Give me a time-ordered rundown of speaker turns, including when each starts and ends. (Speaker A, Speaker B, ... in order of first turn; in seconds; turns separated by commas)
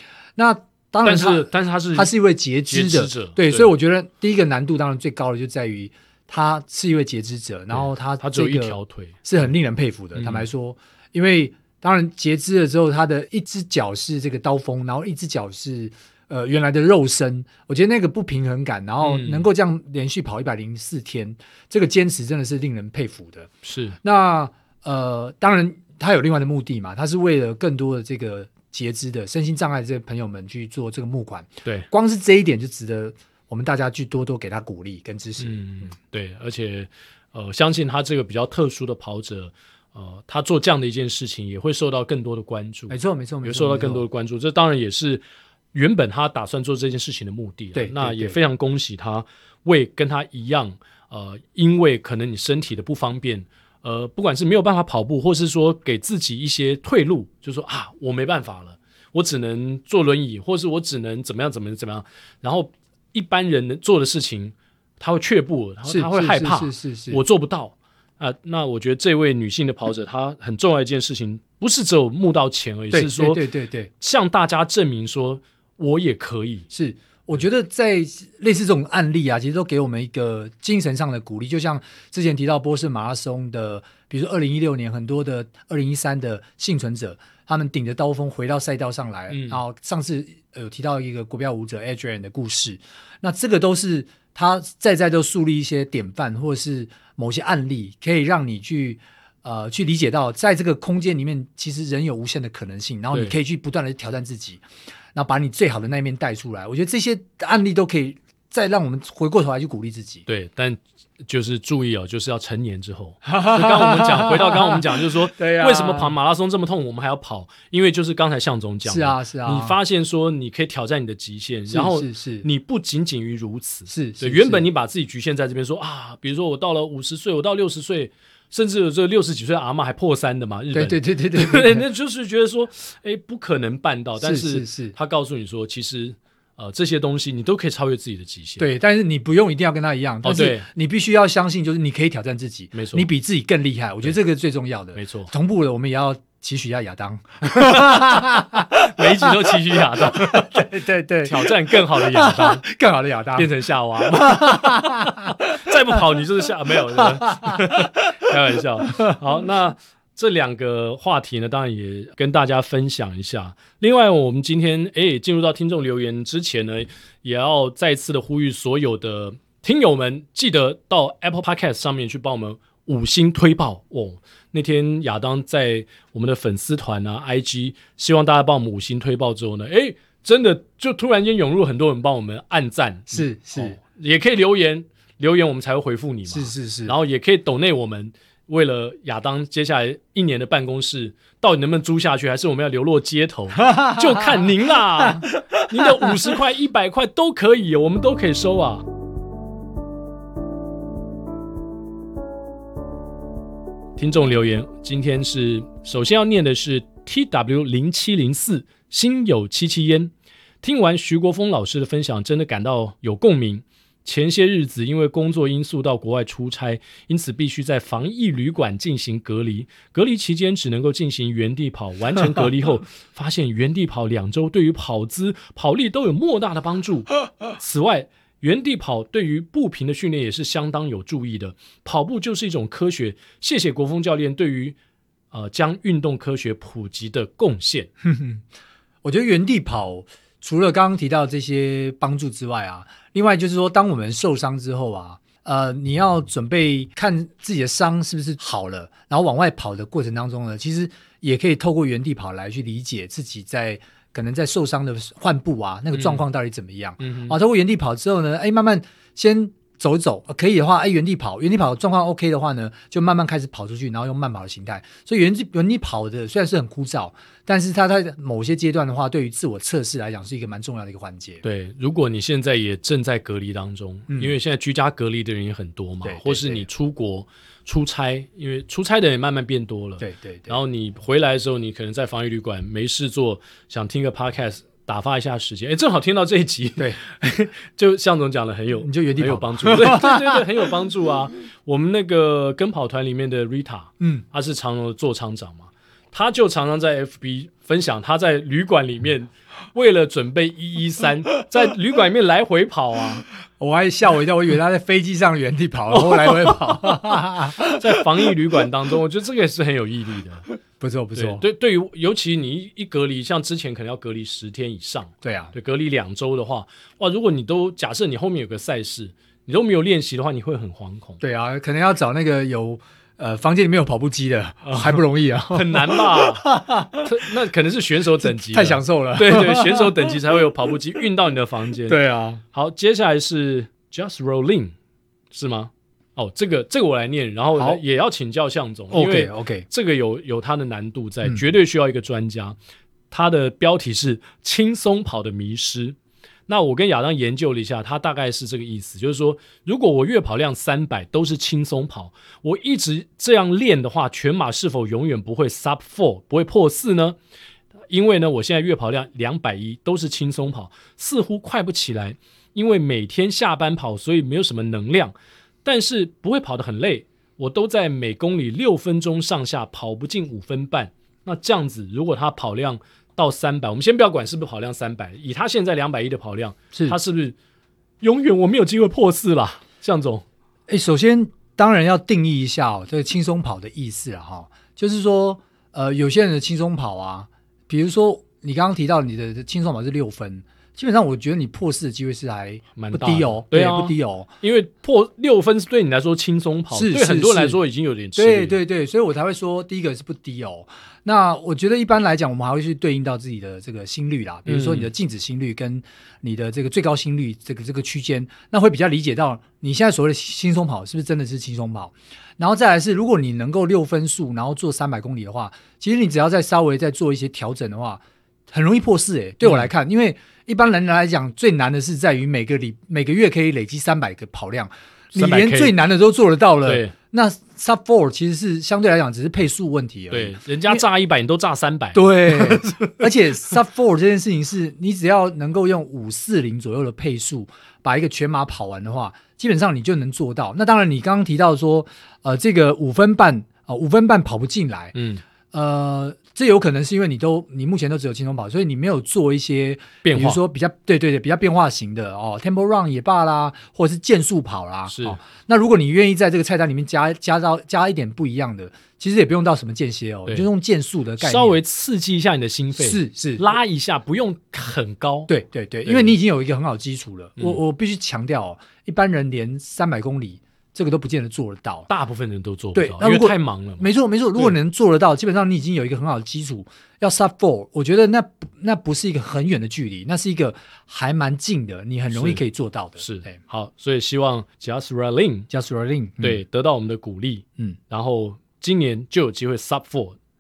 Speaker A: 0.4-23.5, Speaker B: 1.0-2.1, Speaker B: 2.7-3.7, Speaker B: 7.7-9.2, Speaker B: 10.2-10.4, Speaker B: 19.0-19.5, Speaker B: 23.6-24.0, Speaker A: 24.0-35.6, Speaker B: 35.4-73.5, Speaker A: 42.9-44.1, Speaker A: 47.8-48.4, Speaker A: 65.8-67.2, Speaker A: 72.9-73.9, Speaker B: 74.0-76.7, Speaker A: 76.7-104.6, Speaker B: 89.3-89.6, Speaker A: 105.2-110.3, Speaker B: 110.3-138.7, Speaker A: 113.3-116.2, Speaker A: 118.9-119.8, Speaker A: 121.7-122.5, Speaker A: 123.9-124.7, Speaker A: 130.7-131.9, Speaker A: 134.2-134.9, Speaker A: 138.6-153.5, Speaker B: 140.2-140.7, Speaker B: 142.7-143.1, Speaker B: 144.9-145.3, Speaker B: 147.5-148.1, Speaker B: 148.7-150.7, Speaker B: 151.2-152.6, Speaker B: 153.3-198.8, Speaker A: 154.1-156.0, Speaker A: 157.0-157.9, Speaker A: 183.1-183.8, Speaker A: 186.3-186.9, Speaker A: 193.6-195.3, Speaker A: 195.8-196.1, Speaker B: 204.0-234.8, Speaker B: 235.3-237.9, Speaker A: 238.0-238.4, Speaker A: 239.0-271.4, Speaker B: 255.9-256.2, Speaker B: 257.0-257.4, Speaker B: 271.4-303.3, Speaker A: 274.1-274.4, Speaker A: 276.0-276.7, Speaker A: 280.0-280.6, Speaker A: 288.8-290.5, Speaker A: 303.6-307.8, Speaker B: 305.9-306.6, Speaker B: 307.7-310.5, Speaker A: 310.8-311.4, Speaker B: 311.1-321.2, Speaker A: 315.2-315.5, Speaker A: 321.2-327.1, Speaker B: 324.6-332.0, Speaker A: 328.2-330.2, Speaker A: 331.9-332.4, Speaker B: 332.5-334.7, Speaker B: 335.3-342.6, Speaker A: 337.6-337.8, Speaker A: 338.9-339.7, Speaker B: 343.1-357.2, Speaker B: 357.9-365.1, Speaker B: 365.6-377.4, Speaker B: 378.0-380.2, Speaker A: 380.7-394.3, Speaker B: 392.8-398.6, Speaker A: 396.7-397.6, Speaker A: 398.2-430.8, Speaker B: 404.5-404.9, Speaker B: 419.4-419.7, Speaker B: 425.1-425.8, Speaker B: 426.7-426.9, Speaker B: 430.1-433.0, Speaker A: 431.9-445.0, Speaker B: 444.9-445.2, Speaker A: 445.5-461.6, Speaker B: 450.0-450.4, Speaker B: 454.9-455.2, Speaker B: 461.2-465.3, Speaker A: 462.8-463.4, Speaker A: 465.3-471.9, Speaker B: 465.9-466.2, Speaker B: 471.9-473.9, Speaker A: 472.8-483.1, Speaker B: 482.1-482.4, Speaker B: 483.0-485.5, Speaker A: 485.5-486.4, Speaker B: 486.2-490.2